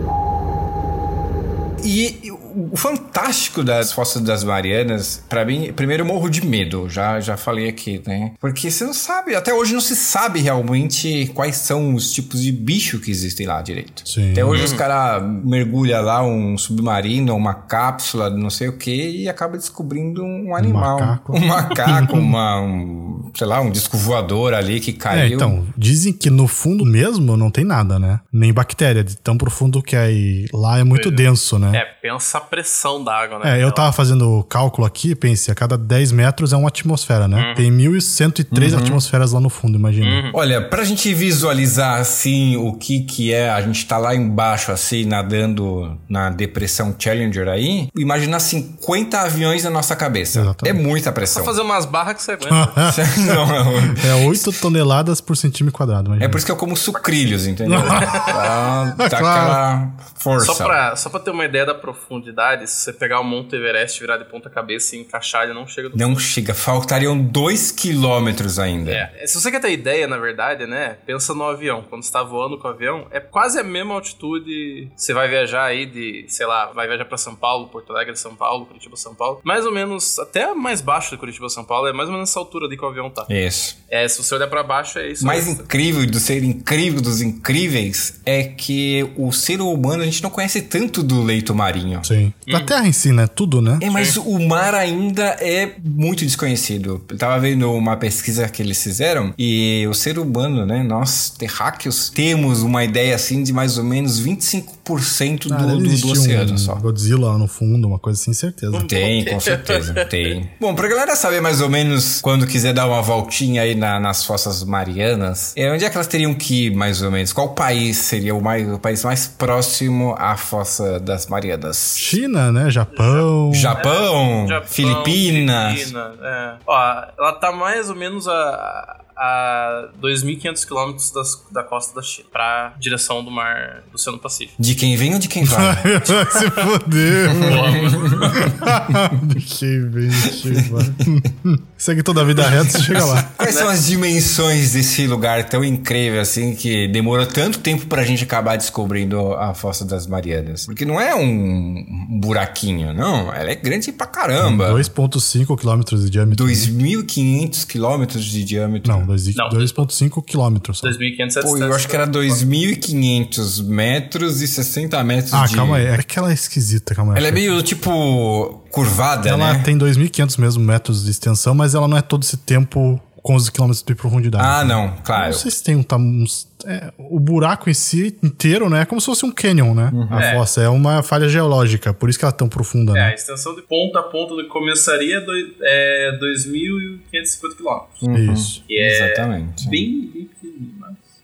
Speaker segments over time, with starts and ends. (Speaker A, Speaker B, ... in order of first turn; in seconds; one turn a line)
Speaker A: 1.8-25.6
Speaker B: 14.1-14.7
Speaker C: 14.5-14.8
Speaker B: 20.6-22.3
Speaker B: 25.1-31.8
Speaker C: 30.9-33.9
Speaker B: 33.4-40.2
Speaker C: 37.3-37.7
Speaker A: 38.5-39.0
Speaker C: 40.0-40.4
Speaker A: 40.3-51.5
Speaker B: 50.3-50.8
Speaker C: 51.3-52.9
Speaker B: 52.5-53.0
Speaker A: 52.8-54.5
Speaker B: 53.9-56.4
Speaker A: 56.2-60.8
Speaker B: 57.6-58.2
Speaker C: 57.9-58.5
Speaker B: 59.0-59.6
Speaker C: 60.4-66.2
Speaker A: 65.9-69.0
Speaker C: 68.8-83.3
Speaker A: 83.3-83.8
Speaker C: 83.9-85.7
Speaker A: 85.2-92.1
Speaker B: 92.0-93.8
Speaker C: 92.5-92.7
Speaker A: 93.8-106.8
Speaker C: 93.9-94.2
Speaker B: 105.5-108.9
Speaker C: 108.7-110.3
Speaker A: 108.7-122.2
Speaker B: 122.0-123.8
Speaker C: 122.9-134.5
Speaker A: 123.5-125.9
Speaker A: 134.6-136.1
Speaker B: 135.4-143.3
Speaker A: 137.3-139.0
Speaker C: 137.3-138.7
Speaker A: 140.2-141.2
Speaker A: 142.4-154.9
Speaker C: 143.4-143.7
Speaker B: 154.4-156.7
Speaker A: 156.3-159.1
Speaker B: 158.8-161.0
Speaker C: 159.3-159.8
Speaker C: 160.8-162.4
Speaker A: 161.4-165.9
Speaker B: 165.3-167.6
Speaker A: 167.1-169.7
Speaker B: 169.2-183.1
Speaker A: 174.4-175.5
Speaker A: 179.9-180.3
Speaker C: 180.1-180.4
Speaker C: 182.9-188.0
Speaker A: 188.0-189.8
Speaker B: 188.1-188.6
Speaker C: 188.7-191.0